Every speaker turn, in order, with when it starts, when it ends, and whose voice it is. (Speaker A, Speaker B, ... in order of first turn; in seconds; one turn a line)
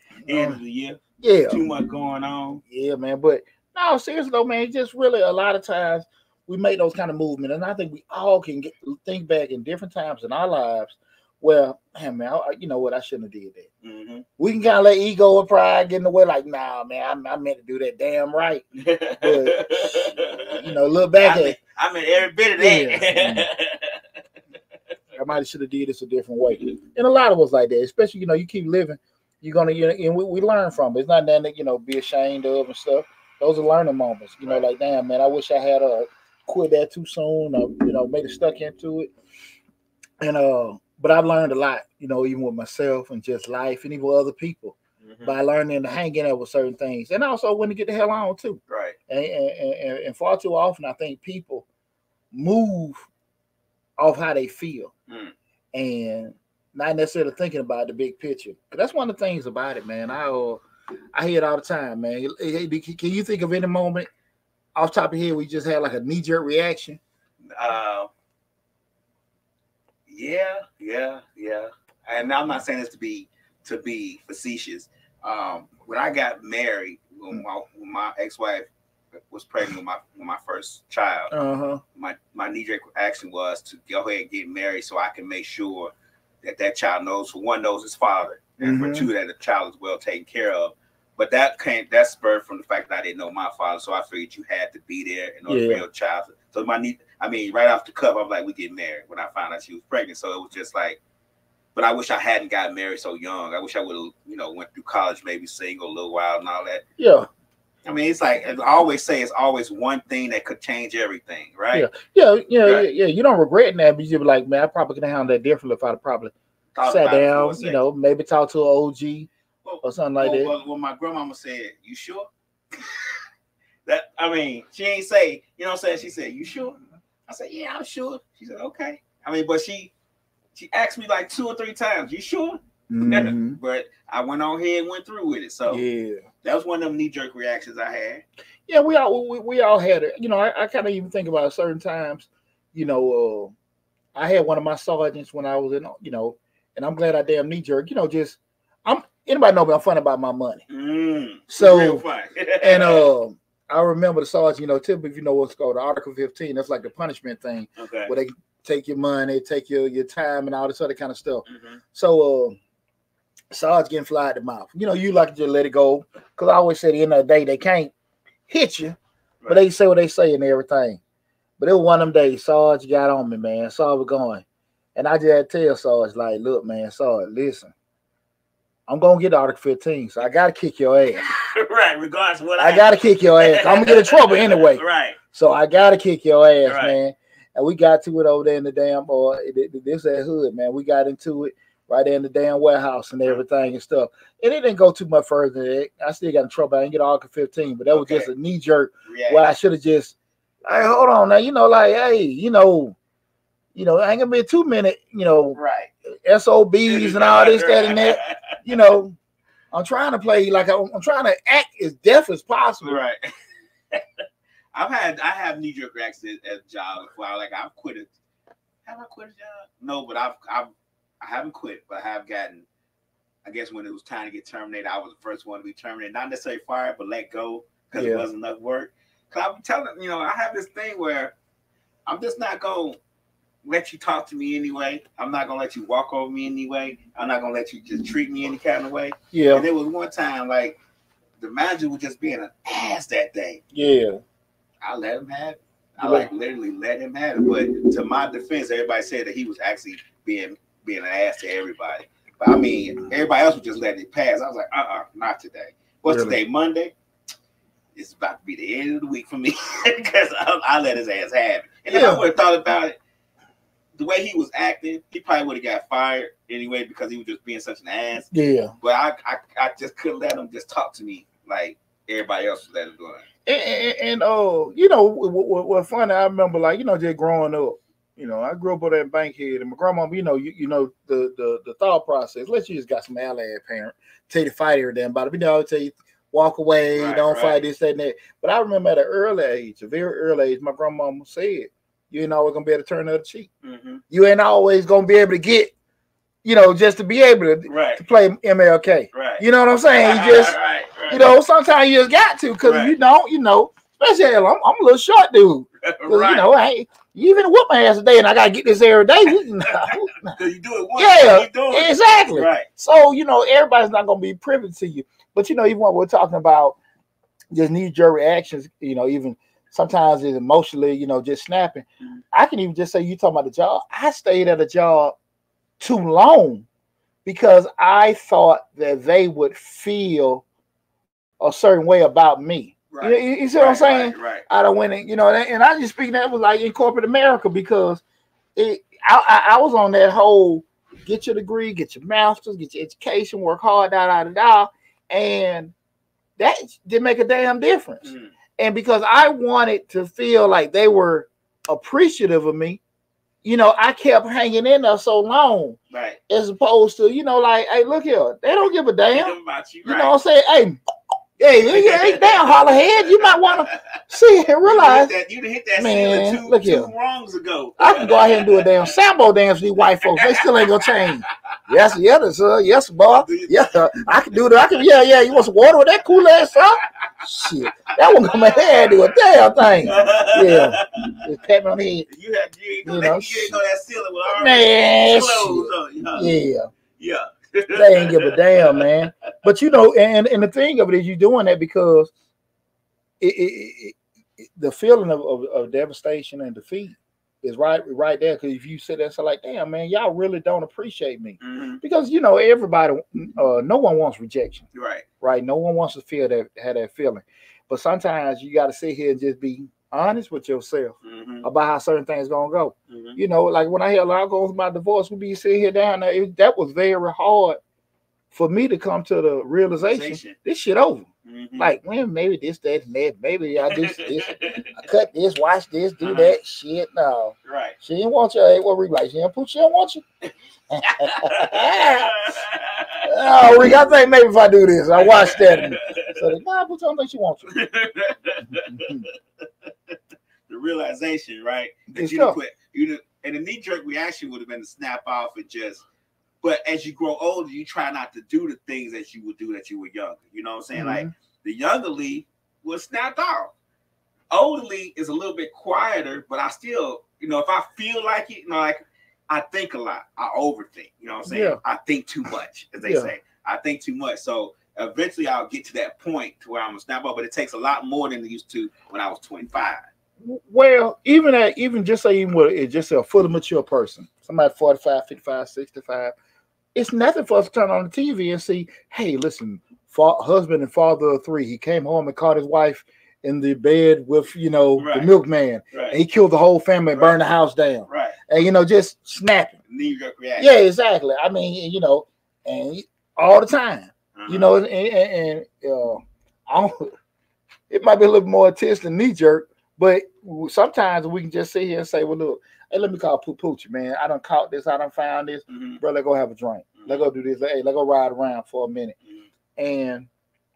Speaker A: 0.2-2.6
Speaker B: 0.3-0.6
Speaker B: 1.2-1.6
Speaker B: 2.7-13.7
Speaker A: 13.8-14.2
Speaker B: 14.4-18.6
Speaker A: 18.8-20.6
Speaker B: 19.1-21.6
Speaker A: 21.2-24.0
Speaker B: 22.6-23.5
Speaker B: 25.1-39.1
Speaker B: 40.2-51.6
Speaker A: 45.0-45.4
Speaker A: 48.7-49.0
Speaker B: 52.3-53.0
Speaker B: 54.0-54.9
Speaker A: 55.1-55.3
Speaker B: 55.7-60.6
Speaker B: 61.1-64.1
Speaker B: 64.8-67.0
Speaker A: 67.5-68.1
Speaker A: 70.1-78.7
Speaker A: 79.3-81.3
Speaker B: 81.3-81.8
Speaker A: 81.9-101.0
Speaker B: 88.6-89.1
Speaker B: 95.5-95.8
Speaker A: 101.7-106.8
Speaker B: 107.0-107.3
Speaker A: 107.8-111.9
Speaker B: 111.7-116.3
Speaker A: 116.7-117.8
Speaker B: 116.8-119.3
Speaker A: 119.6-122.3
Speaker B: 119.8-120.5
Speaker A: 123.8-129.9
Speaker A: 130.5-135.8
Speaker B: 132.9-133.6
Speaker B: 135.7-136.2
Speaker A: 136.4-138.2
Speaker B: 138.7-143.5
Speaker B: 144.1-150.6
Speaker A: 150.7-153.1
Speaker B: 151.5-152.0
Speaker B: 152.6-162.6
Speaker A: 157.8-158.1
Speaker A: 161.4-161.8
Speaker B: 163.5-167.9
Speaker B: 168.5-169.0
Speaker B: 169.5-171.0
Speaker B: 171.6-174.4
Speaker B: 174.9-177.7
Speaker B: 178.9-181.2
Speaker A: 181.1-185.2
Speaker B: 182.6-200.1
Speaker A: 186.7-187.0
Speaker A: 197.9-198.3
Speaker A: 199.1-199.4
Speaker B: 200.7-202.9
Speaker B: 203.7-205.6
Speaker A: 205.5-205.9
Speaker B: 206.2-209.2
Speaker A: 206.9-208.6
Speaker B: 209.7-213.0
Speaker A: 212.8-213.3
Speaker A: 214.7-218.1
Speaker A: 218.8-220.7
Speaker A: 221.2-222.6
Speaker A: 223.4-231.3
Speaker B: 227.9-228.3
Speaker A: 232.1-233.0
Speaker A: 233.6-240.8
Speaker B: 239.3-239.7
Speaker A: 241.4-243.6
Speaker B: 243.7-244.2
Speaker A: 244.8-256.9
Speaker B: 246.0-246.3
Speaker B: 256.1-256.4
Speaker A: 257.9-263.0
Speaker B: 261.9-262.2
Speaker A: 264.0-268.3
Speaker B: 268.3-268.7
Speaker A: 268.8-273.2
Speaker B: 273.4-293.5
Speaker A: 286.9-287.6
Speaker A: 293.6-294.0
Speaker B: 294.1-295.7
Speaker B: 296.4-300.6
Speaker A: 297.6-298.0
Speaker A: 299.1-301.2
Speaker B: 301.1-310.3
Speaker A: 302.6-302.9
Speaker A: 305.8-306.5
Speaker A: 309.6-312.7
Speaker B: 311.0-316.8
Speaker B: 317.5-325.1
Speaker B: 325.8-326.7
Speaker B: 327.2-330.4
Speaker B: 331.4-338.0
Speaker A: 332.9-334.4
Speaker B: 338.6-345.7
Speaker B: 346.4-352.8
Speaker A: 348.0-348.3
Speaker B: 353.4-355.8
Speaker A: 355.9-356.2
Speaker B: 356.3-360.8
Speaker A: 359.1-360.1
Speaker B: 361.4-365.1
Speaker A: 361.6-364.0
Speaker A: 364.6-368.7
Speaker B: 365.8-366.9
Speaker B: 367.8-382.1
Speaker A: 370.1-371.3
Speaker A: 373.1-373.5
Speaker A: 378.1-379.0
Speaker A: 379.8-381.2
Speaker A: 382.1-386.3
Speaker B: 382.8-383.6
Speaker B: 384.3-386.6
Speaker A: 387.0-388.9
Speaker B: 387.7-392.1
Speaker B: 393.2-404.6
Speaker A: 401.4-401.8
Speaker A: 404.7-405.1
Speaker B: 405.2-417.6
Speaker A: 411.0-411.4
Speaker A: 412.9-413.2
Speaker B: 418.3-430.0
Speaker A: 419.8-420.4
Speaker A: 421.2-421.7
Speaker A: 423.7-424.8
Speaker A: 426.0-426.3
Speaker A: 427.4-427.8
Speaker B: 430.7-432.2
Speaker A: 430.8-433.1
Speaker B: 433.1-437.5
Speaker A: 434.9-436.2
Speaker A: 437.5-439.1
Speaker B: 438.5-439.0
Speaker A: 440.5-445.8
Speaker B: 441.9-442.4
Speaker A: 446.4-453.5
Speaker B: 450.7-451.1
Speaker A: 454.3-469.8
Speaker B: 461.3-461.6
Speaker B: 462.8-463.1
Speaker B: 470.2-476.1
Speaker B: 476.7-489.5
Speaker A: 484.8-485.1
Speaker A: 485.7-486.0
Speaker A: 486.9-487.2
Speaker A: 487.9-488.2
Speaker A: 489.7-490.5
Speaker B: 490.4-496.9
Speaker A: 494.1-494.5
Speaker B: 497.7-508.9
Speaker A: 505.5-505.8
Speaker B: 509.6-510.1